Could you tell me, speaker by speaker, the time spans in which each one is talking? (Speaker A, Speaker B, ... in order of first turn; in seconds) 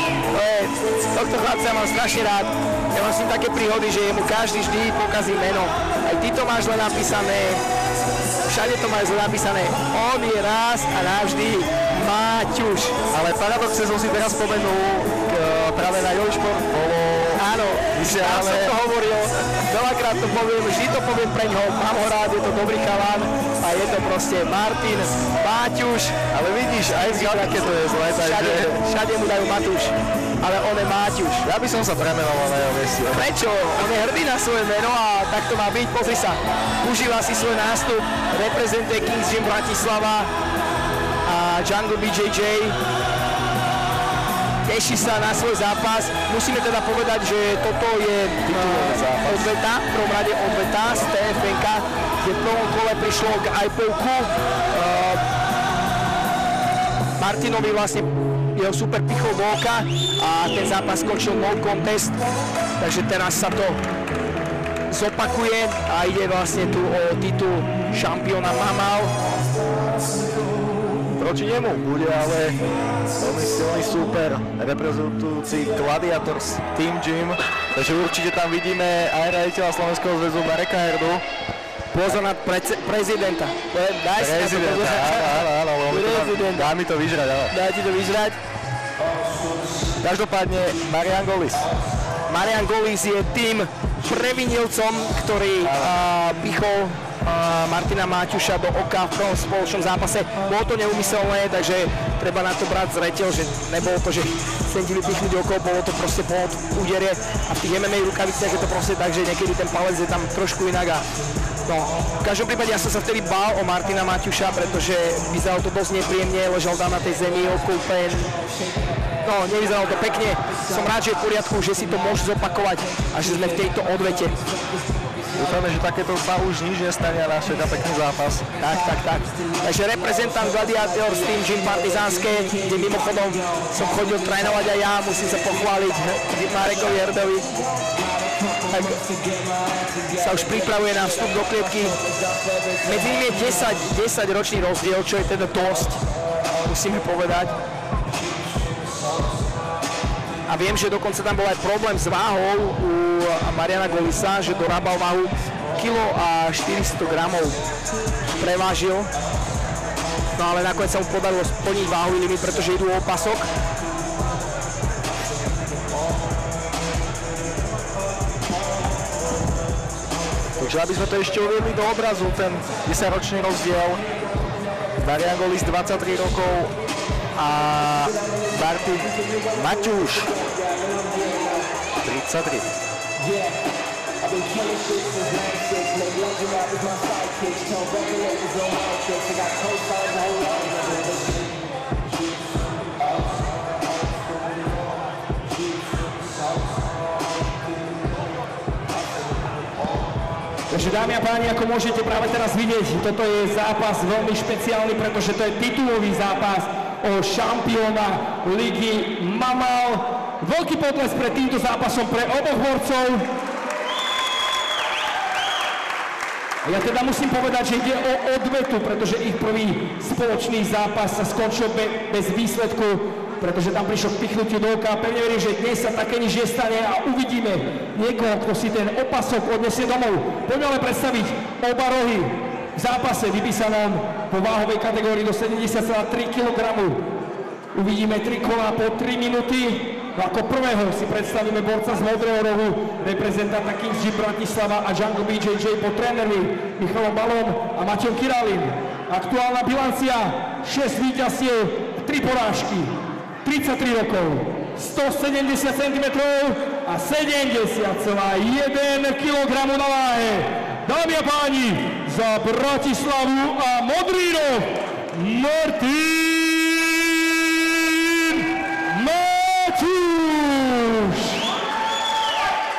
Speaker A: 0.3-7.6, 8.5-13.0, 17.4-26.2, 26.9-31.5, 33.1-40.3, 41.2-42.8, 44.7-55.2, 57.2-62.2, 62.8-63.8, 64.9-69.1, 81.9-86.7, 87.5-88.4, 92.3-111.0, 111.7-118.3, 119.2-124.4, 128.6-137.5, 138.7-139.1, 140.0-142.0, 142.7-146.0, 146.6-147.6, 150.5-157.6, 158.4-159.1, 160.4-163.5, 180.8-181.5, 184.3-191.2, 200.7-213.3, 216.6-237.0, 237.7-271.4
Speaker B: 13.1-18.8, 26.3-28.8, 31.4-33.3, 48.6-49.2, 71.1-72.6, 73.2-81.2, 84.2-87.5, 90.0-91.6, 125.3-128.5, 170.6-174.0, 175.0-176.7, 177.4-180.3, 182.0-182.7